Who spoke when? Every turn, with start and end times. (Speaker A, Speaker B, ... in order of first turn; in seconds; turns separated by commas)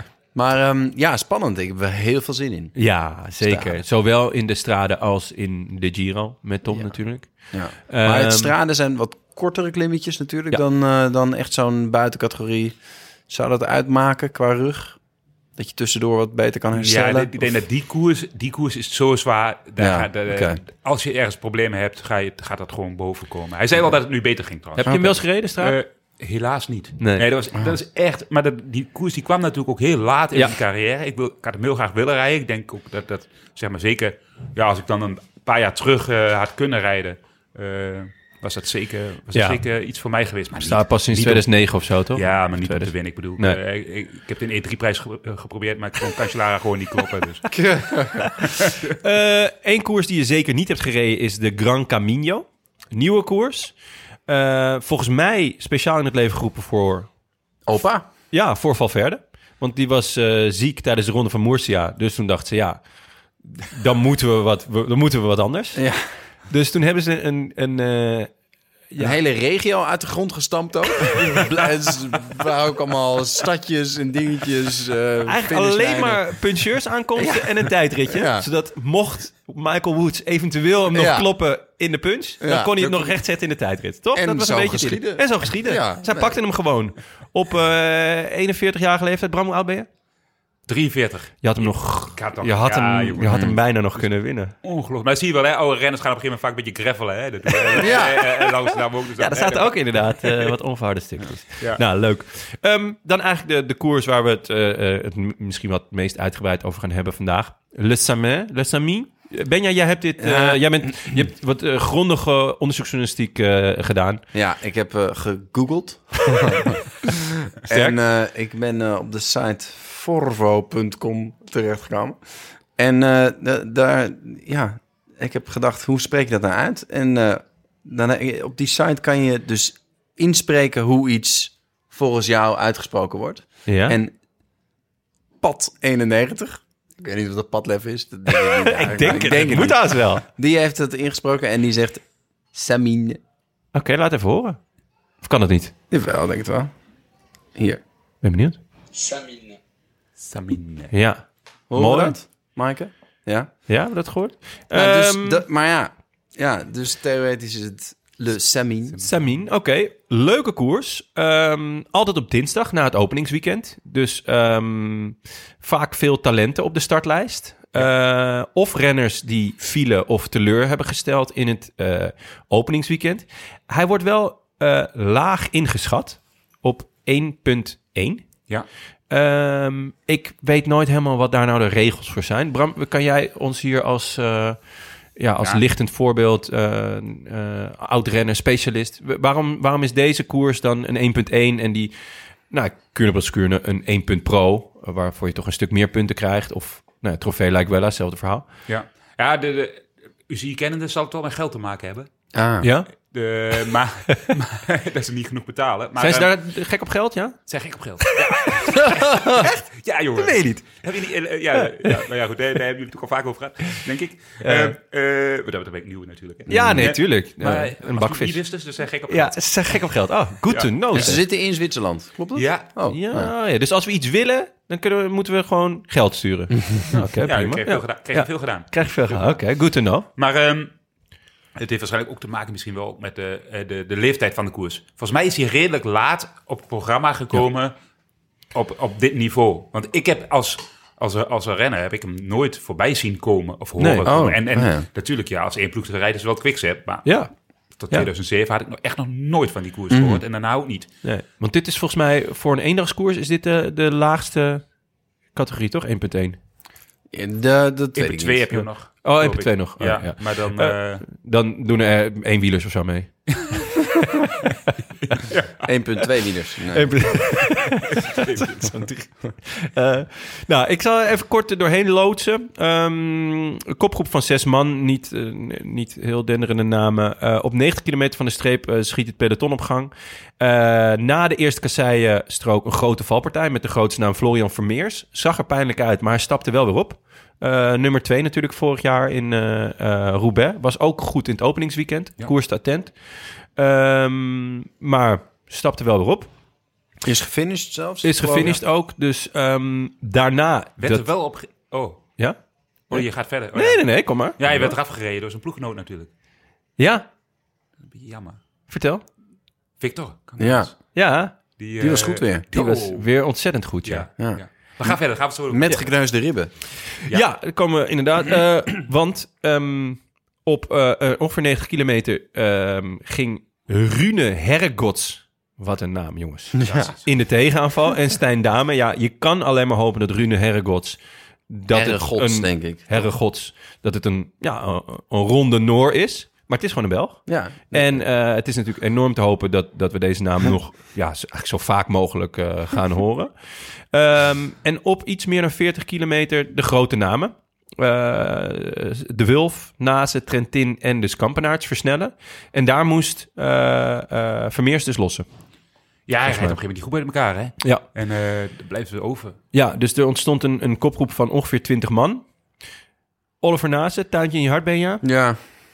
Speaker A: 0.3-2.8, Speaker B: 2.8-7.3, Speaker A: 3.4-3.8, Speaker A: 7.5-12.8, Speaker B: 7.9-8.5, Speaker A: 13.3-15.0, Speaker A: 15.6-17.5, Speaker C: 16.7-41.5, Speaker A: 19.8-20.6, Speaker B: 24.8-25.8, Speaker A: 24.9-25.1, Speaker B: 27.0-27.3, Speaker B: 39.3-39.6, Speaker B: 40.6-43.6, Speaker C: 42.1-47.5, Speaker A: 47.5-48.3, Speaker B: 48.2-53.8, Speaker C: 48.4-48.9, Speaker B: 54.3-57.1, Speaker A: 57.7-58.0, Speaker B: 58.3-62.8, Speaker B: 63.5-65.8, Speaker A: 65.8-66.0, Speaker B: 66.5-68.3, Speaker B: 68.9-69.2, Speaker A: 69.0-76.2, Speaker B: 75.3-89.9, Speaker A: 77.2-78.5, Speaker A: 80.9-81.3, Speaker A: 82.4-83.1, Speaker A: 84.1-86.4, Speaker C: 90.7-93.5, Speaker B: 91.4-94.5, Speaker A: 93.3-93.6, Speaker C: 94.6-100.5, Speaker B: 97.5-98.3, Speaker A: 97.8-98.2, Speaker B: 99.2-114.2, Speaker A: 110.2-111.2, Speaker A: 114.3-122.2, Speaker B: 117.7-118.0, Speaker A: 122.8-134.2, Speaker B: 133.7-134.0, Speaker A: 135.4-142.0, Speaker B: 138.3-140.2, Speaker A: 142.5-143.2, Speaker B: 143.7-144.6, Speaker B: 145.2-145.7, Speaker A: 145.9-146.7, Speaker A: 147.6-147.8, Speaker B: 148.2-148.6, Speaker C: 150.2-150.9, Speaker B: 150.9-152.2, Speaker A: 151.7-153.5, Speaker B: 153.7-155.4, Speaker A: 154.7-159.0, Speaker B: 159.0-178.3, Speaker B: 179.1-184.6, Speaker B: 185.2-191.9, Speaker B: 192.5-198.4, Speaker C: 198.7-202.1, Speaker A: 202.3-202.7, Speaker B: 202.6-202.9, Speaker C: 203.1-206.3, Speaker B: 206.0-207.4, Speaker C: 207.5-219.8, Speaker B: 208.1-209.6, Speaker B: 210.2-210.7, Speaker B: 211.5-212.1, Speaker B: 214.4-214.8, Speaker B: 216.5-218.4, Speaker A: 216.5-216.9, Speaker B: 219.1-221.2, Speaker A: 220.9-223.3, Speaker C: 222.3-222.7, Speaker B: 222.9-230.1, Speaker C: 227.2-229.3, Speaker C: 230.2-230.7, Speaker C: 231.6-237.7, Speaker C: 238.6-247.1, Speaker B: 243.8-244.1, Speaker A: 244.0-244.9, Speaker B: 247.1-247.3, Speaker C: 247.8-250.9, Speaker A: 249.9-250.2, Speaker B: 251.0-254.6, Speaker B: 255.3-256.4, Speaker A: 257.1-258.6, Speaker C: 258.0-261.1, Speaker B: 259.0-263.1, Speaker C: 265.1-265.7, Speaker A: 265.6-267.3, Speaker B: 266.7-292.9, Speaker C: 268.1-268.9, Speaker B: 293.6-296.3, Speaker A: 297.0-298.6, Speaker B: 298.0-301.1, Speaker C: 300.8-302.0, Speaker C: 302.9-306.1, Speaker B: 302.9-304.7, Speaker B: 306.8-307.1, Speaker C: 307.9-308.4, Speaker B: 308.7-309.0, Speaker C: 309.8-310.7, Speaker A: 310.4-310.7, Speaker B: 310.9-311.3, Speaker C: 311.6-313.1, Speaker A: 311.8-312.4, Speaker B: 312.5-314.1, Speaker C: 313.9-315.8, Speaker A: 314.2-314.9, Speaker A: 315.5-316.5, Speaker B: 316.9-355.3, Speaker A: 326.6-326.9, Speaker C: 326.7-327.0, Speaker A: 331.7-333.1, Speaker A: 337.3-338.0, Speaker C: 356.1-359.4, Speaker B: 356.3-356.6, Speaker B: 359.5-362.2, Speaker B: 363.4-365.0, Speaker A: 365.0-365.4